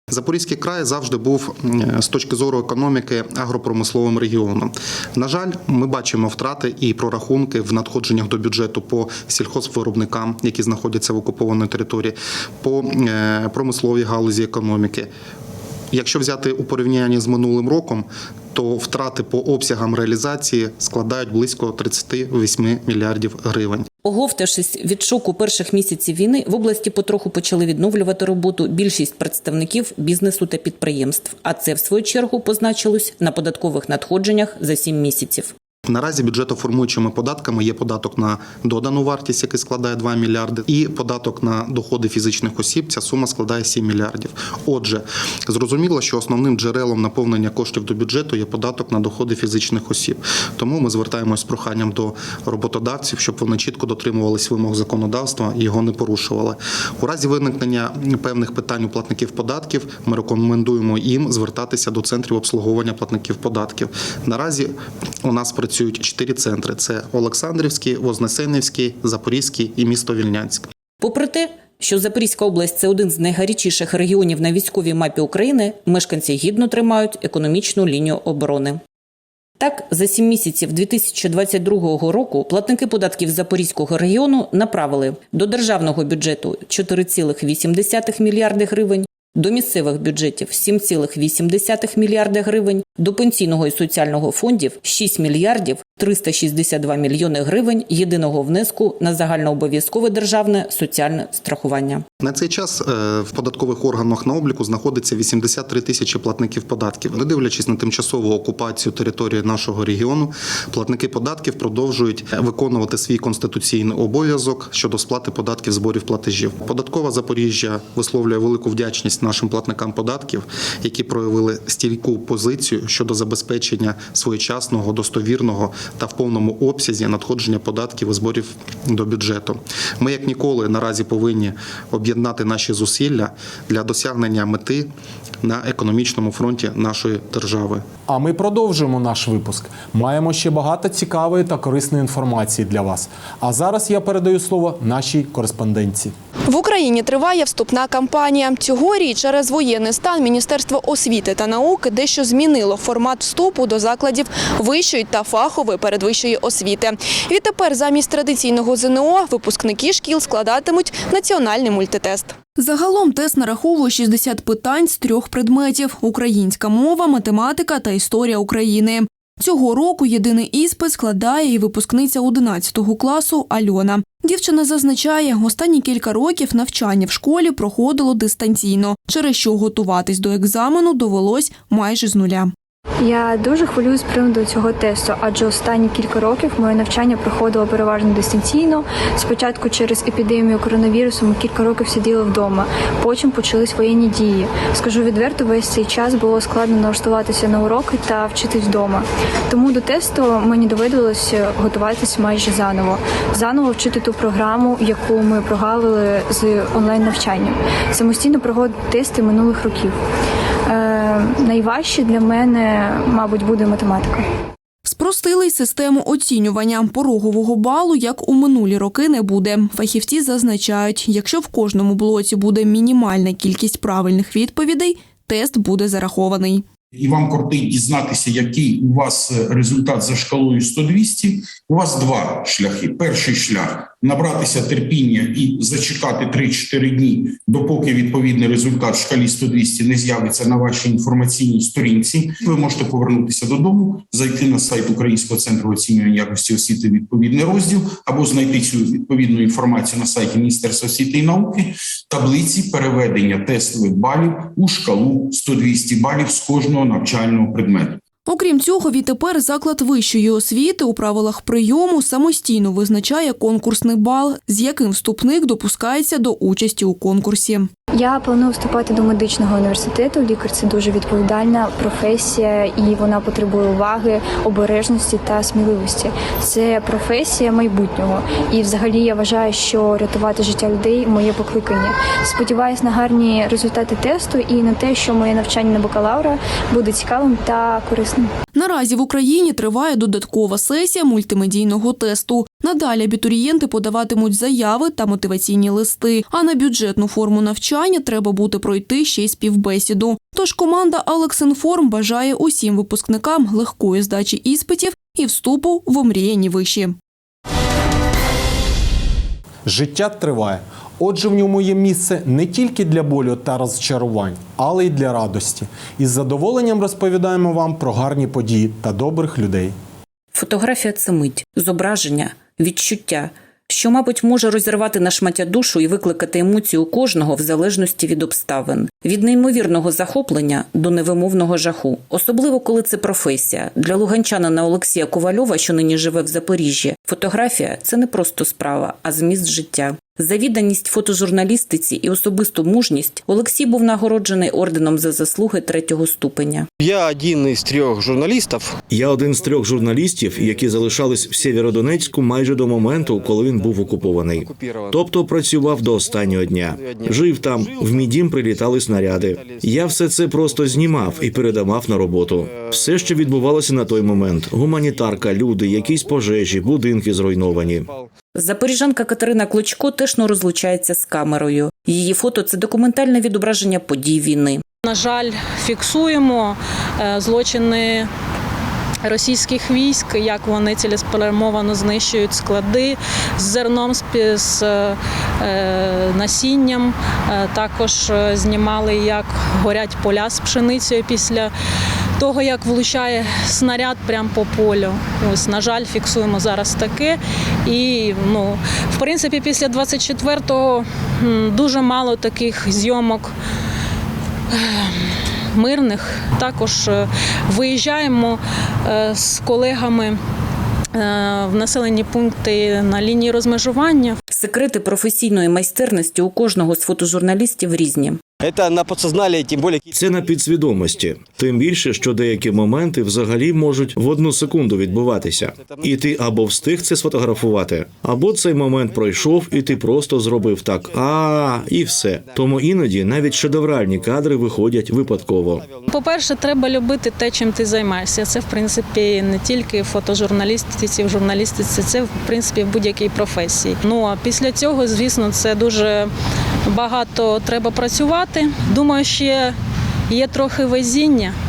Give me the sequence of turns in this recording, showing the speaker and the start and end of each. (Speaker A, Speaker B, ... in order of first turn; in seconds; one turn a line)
Speaker A: 0.1-15.1
Speaker A: 15.9-23.9
Speaker B: 24.1-35.5
Speaker A: 35.9-64.7
Speaker A: 65.2-70.7
Speaker B: 71.0-78.8
Speaker B: 79.6-102.0
Speaker A: 102.2-134.9
Speaker A: 135.4-137.8
Speaker C: 138.1-146.1
Speaker D: 146.5-182.5
Speaker E: 183.0-210.0
Speaker E: 210.7-214.3
Speaker D: 214.9-226.7
Speaker F: 226.9-258.0
Speaker D: 258.3-267.7
Speaker E: 267.9-288.3
Speaker D: 288.6-306.9
Speaker C: 309.7-319.7
Speaker B: 320.3-346.7
Speaker G: 346.8-348.8
Speaker H: 348.9-367.9
Speaker B: 368.4-374.6
Speaker I: 374.9-378.1
Speaker I: 379.0-391.5
Speaker I: 392.2-403.3
Speaker I: 404.5-410.2
Speaker I: 410.9-414.2
Speaker B: 414.3-418.2
Speaker G: 418.4-419.9
Speaker H: 419.9-435.7
Speaker I: 435.9-446.1
Speaker I: 446.7-449.6
Speaker I: 450.1-451.3